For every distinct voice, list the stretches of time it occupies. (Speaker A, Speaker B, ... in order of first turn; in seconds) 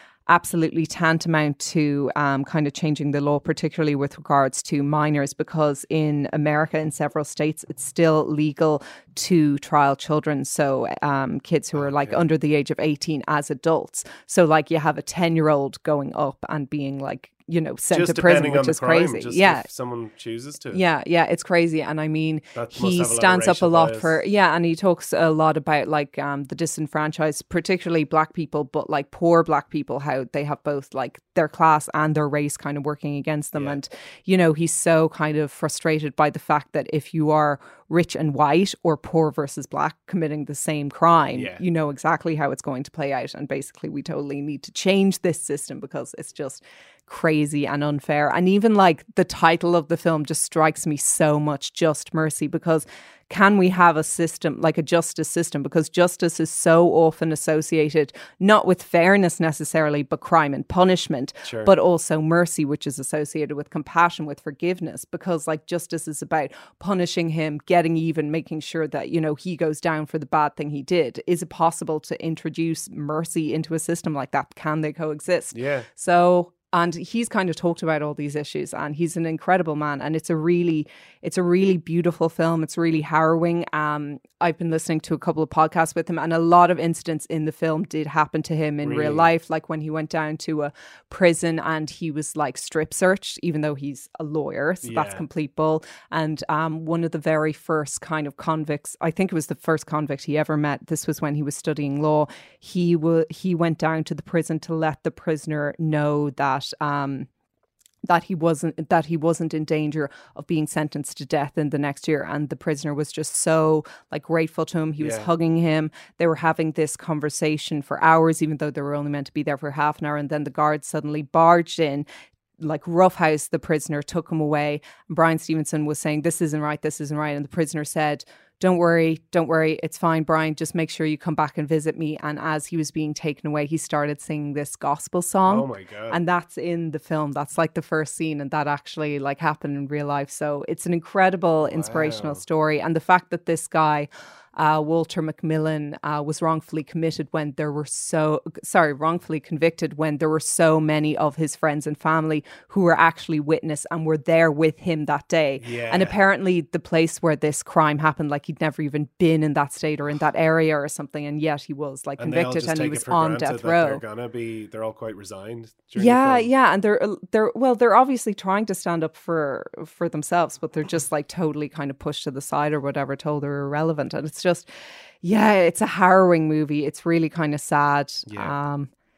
Speaker A: 0.3-19.7, 20.7-107.3, 108.0-122.0, 122.6-164.0, 165.9-174.7, 175.2-178.9
Speaker B: 11.8-12.2, 17.9-20.8, 22.5-24.2, 33.5-33.8, 41.3-41.6, 61.4-61.7, 75.5-75.9, 88.8-89.3, 94.8-95.2, 115.0-115.3, 135.4-136.2, 141.6-142.4, 155.6-156.2, 162.2-166.5, 178.3-178.6